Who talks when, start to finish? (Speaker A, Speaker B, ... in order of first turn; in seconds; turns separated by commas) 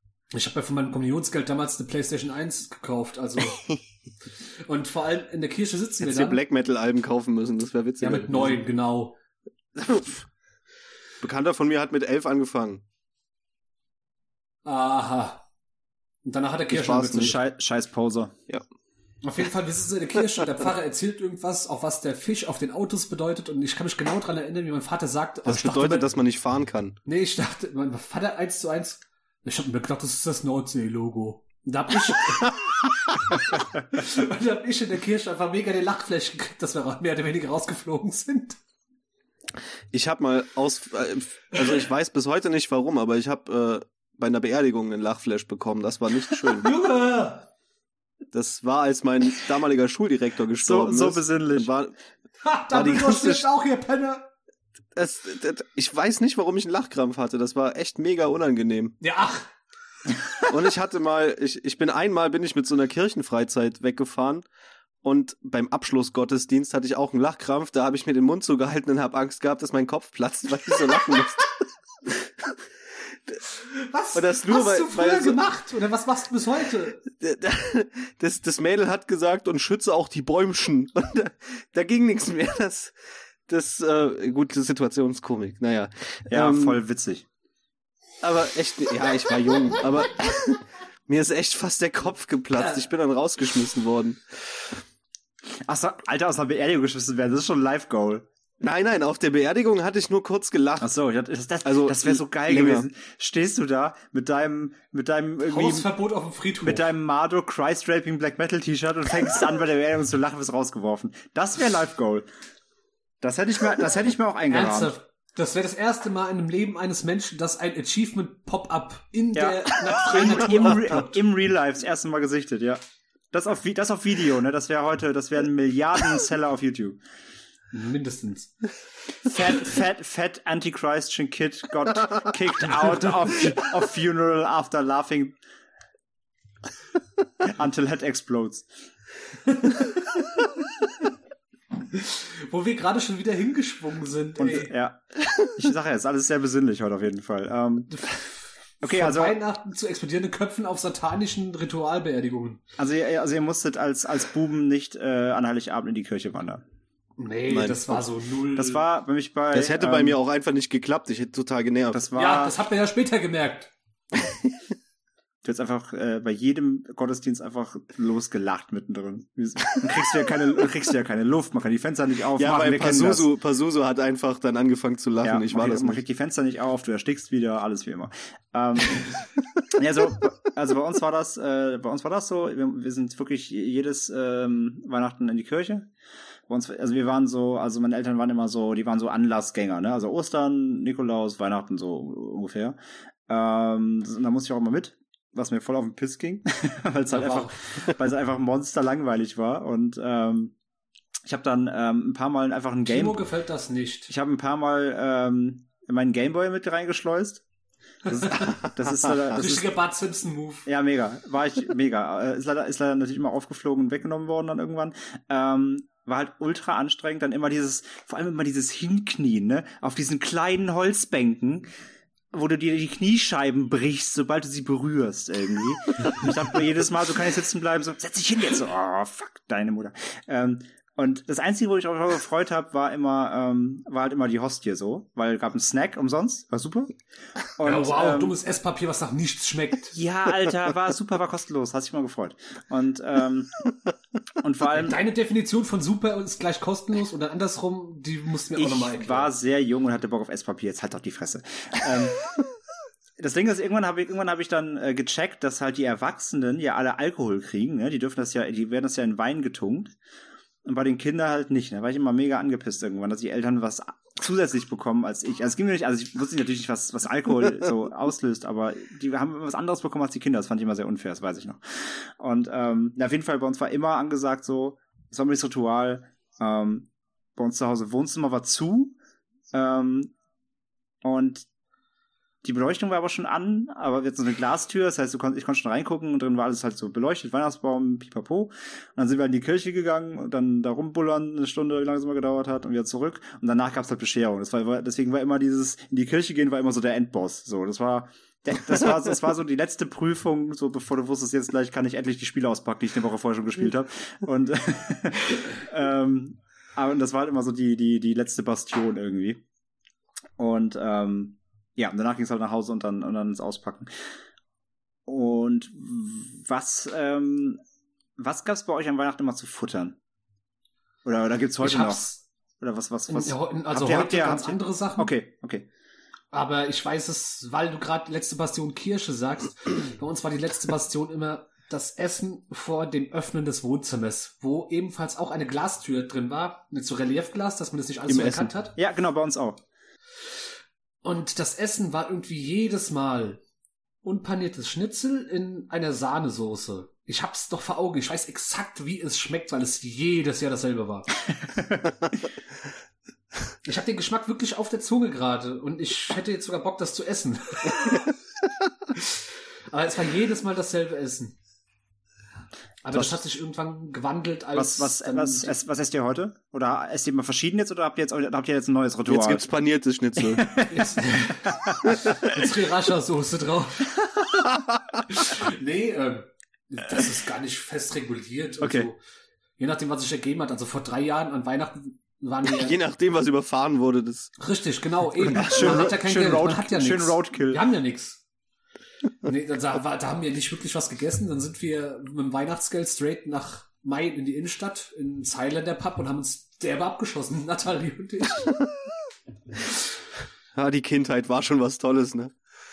Speaker A: 0.3-3.6, Speaker A: 4.7-6.4, Speaker B: 6.0-8.6, Speaker A: 8.0-9.2, Speaker B: 9.8-10.2, Speaker B: 11.2-12.8, Speaker A: 14.7-15.5, Speaker A: 16.2-17.4, Speaker B: 16.7-17.3, Speaker C: 17.1-18.4, Speaker A: 19.2-26.1, Speaker B: 25.5-27.0, Speaker A: 27.1-38.6, Speaker B: 39.9-46.7, Speaker A: 46.5-47.5, Speaker B: 48.3-52.0, Speaker C: 50.6-51.7, Speaker A: 52.4-54.3, Speaker B: 52.7-53.5, Speaker B: 54.9-59.0, Speaker A: 59.0-59.5, Speaker B: 60.5-64.5, Speaker B: 65.0-72.6, Speaker B: 73.1-73.4, Speaker A: 73.7-77.0, Speaker B: 74.1-75.5, Speaker B: 77.1-86.8, Speaker C: 86.3-87.2, Speaker B: 88.2-94.8, Speaker C: 95.7-98.3, Speaker B: 98.6-100.9, Speaker C: 100.8-105.9, Speaker B: 101.7-102.9, Speaker A: 105.5-106.9, Speaker C: 106.6-112.3, Speaker C: 113.2-114.9, Speaker A: 114.5-121.2, Speaker C: 119.3-122.8, Speaker C: 123.3-127.0, Speaker A: 127.7-128.5, Speaker C: 129.2-135.4, Speaker C: 137.4-138.7, Speaker A: 141.9-144.7, Speaker C: 144.4-148.1, Speaker A: 147.9-148.2, Speaker A: 148.8-152.6, Speaker C: 148.8-149.4, Speaker C: 152.8-156.6, Speaker A: 157.2-158.8, Speaker B: 157.5-158.0, Speaker C: 158.6-160.2, Speaker B: 159.5-162.0, Speaker C: 161.9-162.5, Speaker A: 162.2-163.7, Speaker B: 164.2-164.6, Speaker C: 165.4-173.3, Speaker B: 172.4-176.0, Speaker C: 175.2-185.9, Speaker C: 186.5-192.8, Speaker C: 193.3-200.6, Speaker A: 197.1-197.6, Speaker C: 201.3-203.2, Speaker A: 202.9-204.1, Speaker C: 204.1-207.4, Speaker C: 208.1-209.7, Speaker A: 208.2-208.5, Speaker A: 209.3-210.7, Speaker C: 210.7-221.7, Speaker C: 222.3-238.3, Speaker A: 237.6-240.0, Speaker C: 239.9-243.6, Speaker C: 244.4-245.0, Speaker A: 244.7-249.3, Speaker C: 248.6-252.3, Speaker C: 253.2-259.9, Speaker C: 260.6-279.0, Speaker C: 279.5-280.1, Speaker C: 281.0-281.5, Speaker C: 282.4-309.4, Speaker C: 310.4-313.9, Speaker C: 315.1-317.6, Speaker C: 318.2-320.0, Speaker C: 321.1-325.7, Speaker A: 321.6-322.2, Speaker A: 323.1-325.1, Speaker A: 326.3-338.7, Speaker B: 338.1-338.5, Speaker C: 338.8-339.6, Speaker A: 341.0-343.4, Speaker A: 344.0-351.1, Speaker C: 351.5-351.8, Speaker A: 353.6-358.1, Speaker A: 358.9-361.4, Speaker A: 362.8-365.5, Speaker C: 364.6-369.5, Speaker B: 369.1-370.5, Speaker C: 370.3-372.2, Speaker A: 370.7-374.0, Speaker A: 375.1-379.0, Speaker C: 378.6-378.9, Speaker A: 379.6-382.8, Speaker B: 382.4-384.3, Speaker A: 384.4-388.2, Speaker C: 385.2-387.6, Speaker A: 389.2-398.6, Speaker B: 400.5-402.3